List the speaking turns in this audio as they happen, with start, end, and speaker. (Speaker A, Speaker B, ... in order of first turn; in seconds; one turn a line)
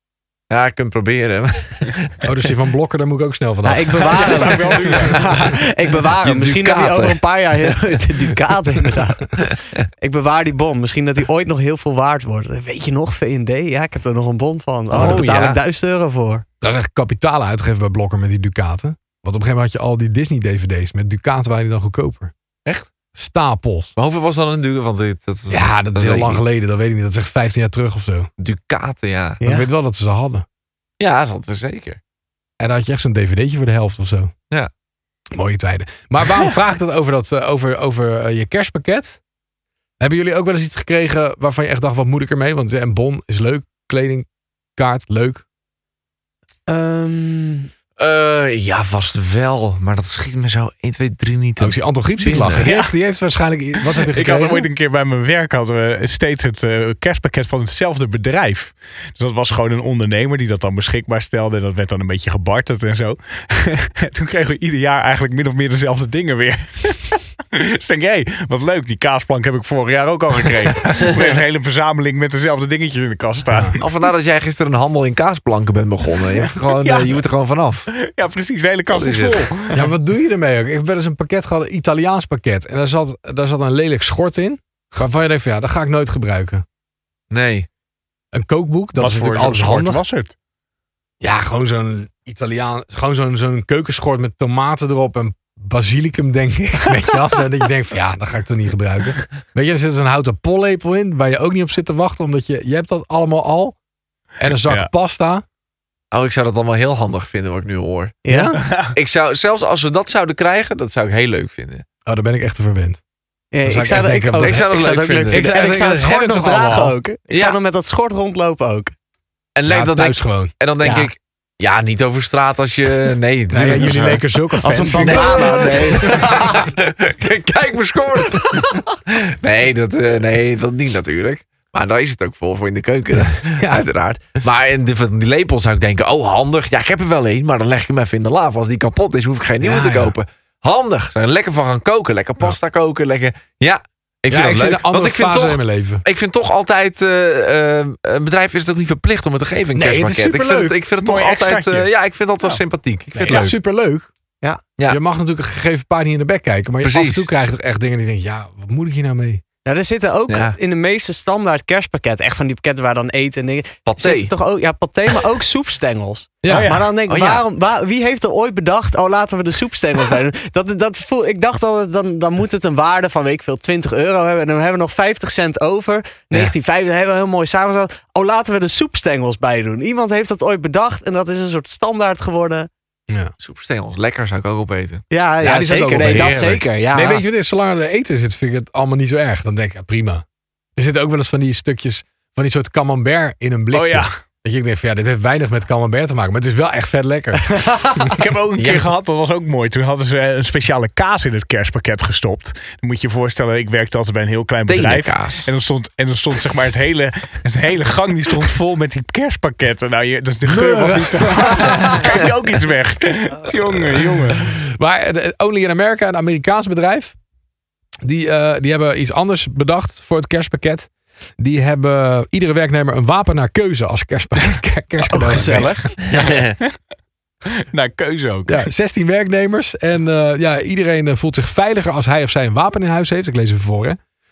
Speaker A: 0.5-2.2
Speaker B: 2.2-4.4
Speaker C: 3.6-16.4
Speaker D: 4.0-5.2
Speaker A: 6.2-8.0
Speaker A: 14.9-15.6
Speaker B: 15.0-15.2
Speaker B: 16.6-22.3
Speaker A: 22.6-22.9
Speaker B: 23.1-23.9
Speaker A: 24.0-26.4
Speaker B: 25.5-28.3
Speaker A: 28.4-29.4
Speaker C: 29.4-29.7
Speaker B: 29.4-30.4
Speaker A: 31.0-32.0
Speaker B: 32.6-34.3
Speaker B: 35.4-39.2
Speaker B: 40.0-44.3
Speaker B: 44.8-45.4
Speaker C: 46.7-47.7
Speaker A: 48.0-52.7
Speaker B: 51.6-54.7
Speaker D: 52.6-52.9
Speaker D: 53.8-73.9
Speaker A: 73.8-77.9
Speaker D: 76.4-77.2
Speaker D: 77.9-79.9
Speaker A: 78.9-79.5
Speaker B: 79.7-86.6
Speaker A: 87.3-87.7
Speaker B: 88.3-90.0
Speaker D: 89.0-90.3
Speaker B: 91.2-103.8
Speaker B: 104.4-105.4
Speaker D: 104.7-104.9
Speaker A: 106.1-108.2
Speaker C: 108.2-108.6
Speaker B: 108.3-108.6
Speaker D: 108.6-109.0
Speaker A: 108.9-111.8
Speaker B: 112.1-113.0
Speaker C: 113.5-118.9
Speaker B: 113.7-114.6
Speaker A: 114.3-115.5
Speaker B: 115.3-117.0
Speaker A: 117.3-117.6
Speaker A: 119.6-124.2
Speaker B: 119.7-120.5
Speaker C: 120.8-121.1
Speaker B: 123.5-126.3
Speaker C: 124.6-126.6
Speaker A: 124.9-153.5
Speaker B: 133.4-133.8
Speaker B: 139.6-140.1
Speaker B: 144.3-146.0
Speaker B: 149.8-150.8
Speaker D: 151.0-151.9
Speaker B: 153.3-154.1
Speaker B: 154.9-159.4
Speaker A: 156.8-157.3
Speaker C: 159.7-182.7
Speaker A: 160.3-160.6
Speaker A: 163.9-164.3
Speaker B: 166.4-166.7
Speaker D: 166.5-166.9
Speaker A: 167.1-167.4
Speaker A: 183.4-185.0
Speaker C: 185.1-187.2
Speaker B: 185.4-190.2
Speaker A: 186.0-186.6
Speaker B: 190.8-198.1
Speaker D: 193.7-194.1
Speaker C: 197.5-198.0
Speaker D: 198.1-214.5
Speaker A: 198.6-198.9
Speaker A: 204.7-205.5
Speaker B: 210.5-212.0
Speaker B: 214.7-217.2
Speaker B: 218.0-225.8
Speaker C: 225.1-225.9
Speaker A: 226.0-226.6
Speaker D: 227.5-228.7
Speaker B: 228.5-234.0